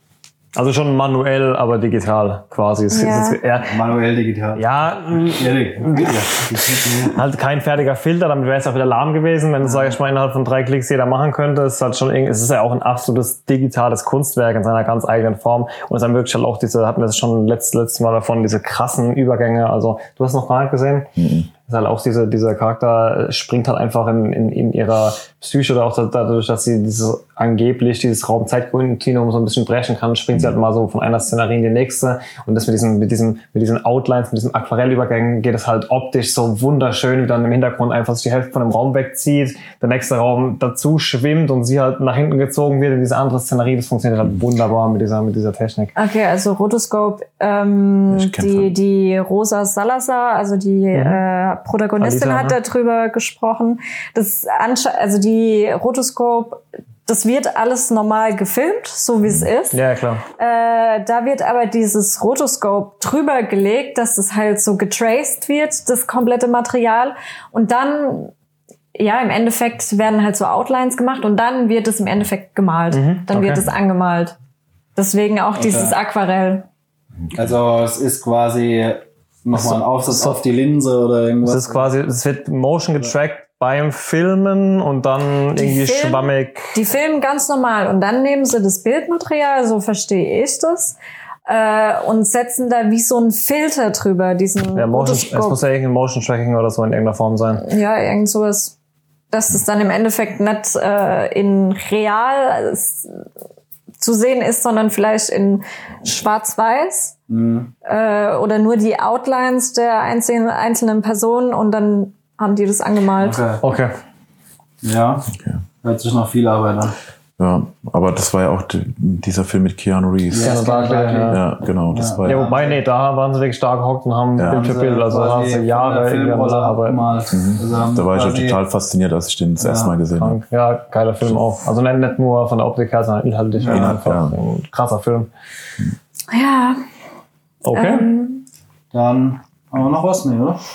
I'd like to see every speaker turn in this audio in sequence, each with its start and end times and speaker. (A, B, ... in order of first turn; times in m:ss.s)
0:00.6-0:03.8 A
0:02.9-0:03.4 B
0:03.6-0:07.2 C
0:04.6-0:06.2 A
0:06.8-0:21.1 A
0:09.6-0:10.0 C
0:21.2-0:21.5 D
0:21.7-0:45.9 A
0:46.0-0:59.8 B
0:48.1-0:48.7 D
0:50.9-0:51.2 A
0:52.0-0:52.6 A
0:59.7-1:00.2 A
1:00.4-1:08.3 B
1:09.0-1:14.4 B
1:12.9-1:13.7 A
1:15.0-1:16.6 B
1:15.6-1:16.0 C
1:17.3-1:21.9 C
1:19.6-1:20.4 A
1:21.4-1:26.7 A
1:25.6-1:31.0 B
1:31.5-1:35.6 B
1:34.8-1:37.6 A
1:37.6-1:38.8 B
1:39.3-1:43.1 B
1:44.0-1:47.2 B
1:47.3-1:47.7 C
1:47.8-1:53.4 B
1:53.2-1:53.6 C
1:53.6-1:53.9 A
1:54.8-1:57.0 C
1:55.4-1:55.6 D
1:57.4-2:00.6 D
2:00.3-2:02.8 C
2:00.4-2:01.4 A
2:01.3-2:02.5 D
2:02.2-2:07.1 A
2:04.4-2:04.7 D
2:04.4-2:08.6 C
2:07.3-2:10.4 D
2:09.6-2:10.0 C
2:10.2-2:15.3 A
2:13.6-2:14.0 C
2:13.7-2:14.4 D
2:16.3-2:16.8 B
2:17.6-2:18.1 A
2:17.7-2:18.4 B
2:18.9-2:20.6 C